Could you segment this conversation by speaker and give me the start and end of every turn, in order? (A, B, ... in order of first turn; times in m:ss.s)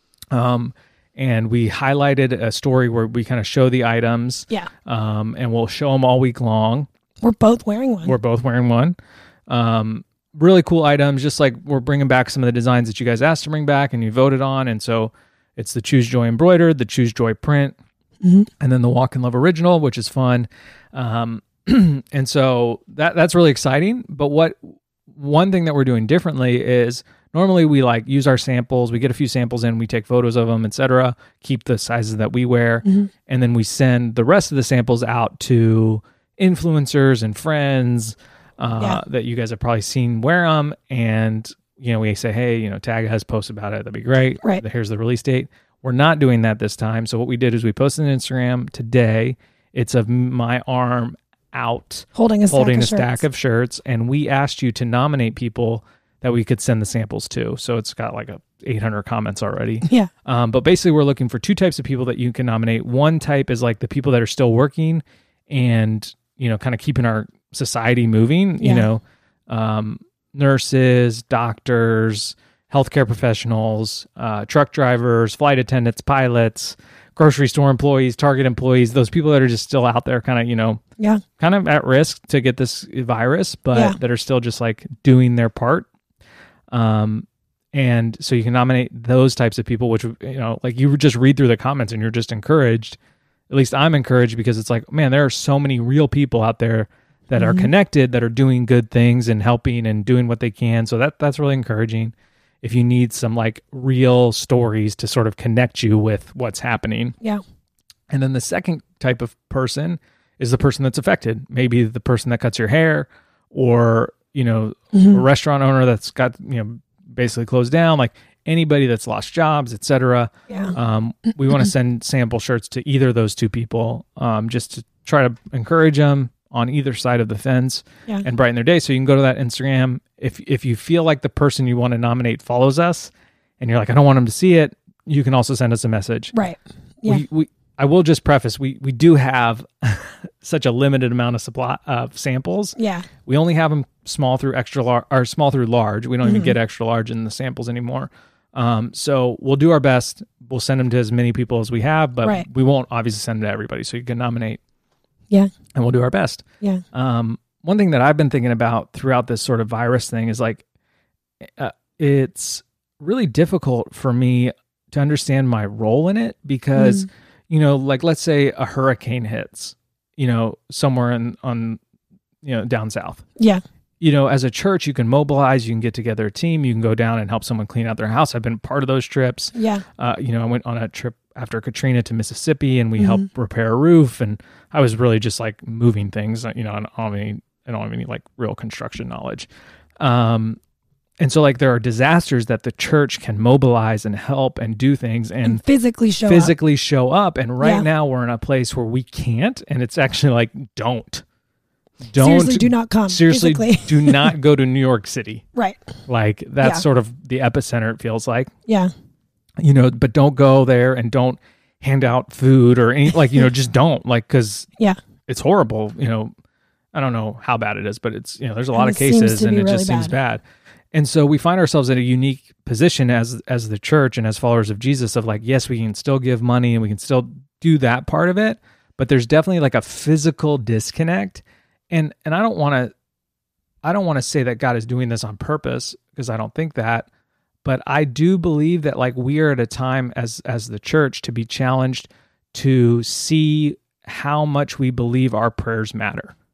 0:00.3-0:06.9 A
0:07.2-0:08.2 B
0:08.0-0:09.0 A
0:09.5-0:17.8 A
0:18.2-0:18.5 B
0:18.6-1:20.8 A
0:52.1-0:53.2 B
1:08.6-1:08.9 B
1:21.4-1:25.9 A
1:26.7-1:33.0 A
1:33.5-1:47.2 A
1:37.4-1:37.7 B
1:48.1-2:16.3 A
1:54.9-1:55.2 B
2:00.5-2:00.7 B
2:16.3-2:17.2 B
2:17.0-2:34.6 A
2:22.8-2:23.0 B
2:26.2-2:26.5 B
2:35.7-2:40.6 A
2:41.6-2:51.8 A
2:46.7-2:47.0 B
2:52.4-2:53.2 A
2:54.0-3:09.5 A
2:59.5-2:59.8 B
3:03.0-3:03.2 B
3:10.0-3:10.6 A
3:11.2-3:15.6 A
3:15.4-3:16.5 B
3:16.2-3:21.2 A
3:17.6-3:17.8 B
3:22.0-3:25.4 A
3:22.2-3:24.3 B
3:25.5-3:25.8 B
3:26.1-3:28.5 A
3:29.6-3:34.7 A
3:35.3-3:36.3 A
3:36.9-3:52.9 A
3:38.7-3:40.1 B
3:53.8-3:57.1 A
3:57.6-4:06.3 A